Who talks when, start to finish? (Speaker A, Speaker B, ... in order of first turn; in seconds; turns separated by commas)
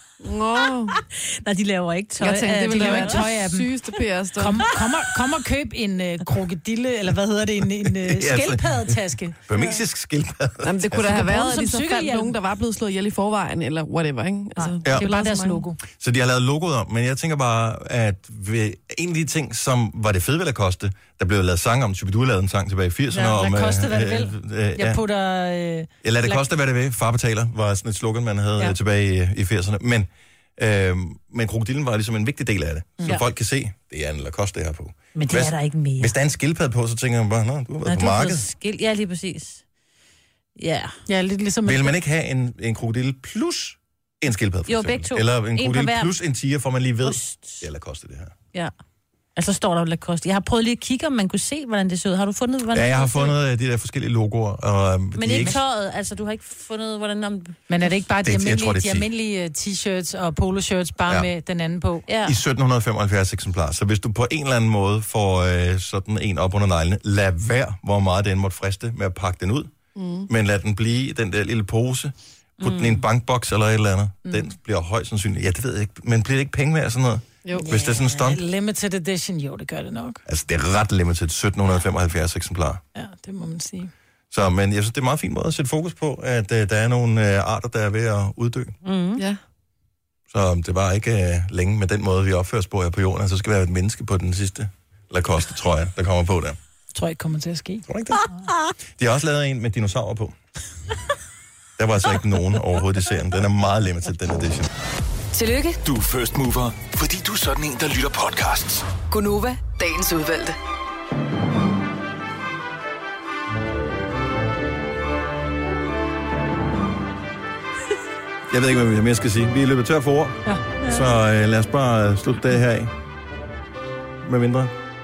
Speaker A: 0.2-1.0, Speaker B: 1.0-3.3, Speaker A: 2.2-4.7, Speaker C: 2.7-3.7, Speaker C: 4.3-9.5, Speaker D: 8.0-11.2, Speaker A: 10.6-15.6, Speaker C: 11.0-12.3, Speaker C: 14.6-15.8, Speaker D: 14.8-15.1, Speaker D: 15.8-25.0, Speaker C: 23.1-26.4, Speaker D: 26.0-38.5, Speaker B: 35.1-36.1, Speaker B: 37.8-39.6, Speaker B: 40.6-41.0, Speaker C: 41.1-41.9, Speaker D: 41.6-48.3, Speaker B: 44.7-46.1, Speaker B: 47.0-47.6, Speaker B: 49.4-53.4, Speaker D: 52.7-55.6, Speaker B: 55.1-57.6, Speaker C: 57.7-62.0, Speaker D: 58.2-59.1, Speaker B: 62.1-62.4, Speaker D: 62.2-69.7, Speaker A: 70.0-70.3, Speaker D: 70.3-78.4, Speaker B: 72.6-73.0, Speaker A: 77.4-77.7, Speaker C: 77.6-80.2, Speaker D: 80.2-82.8, Speaker C: 82.9-83.9, Speaker D: 84.3-88.7, Speaker B: 88.8-89.2, Speaker D: 90.3-96.6, Speaker C: 96.9-97.8, Speaker D: 97.9-98.3, Speaker D: 98.9-100.3, Speaker D: 101.8-104.7, Speaker E: 105.3-105.8, Speaker F: 105.8-108.9, Speaker E: 109.0-110.5, Speaker D: 118.5-122.9, Speaker D: 124.2-124.7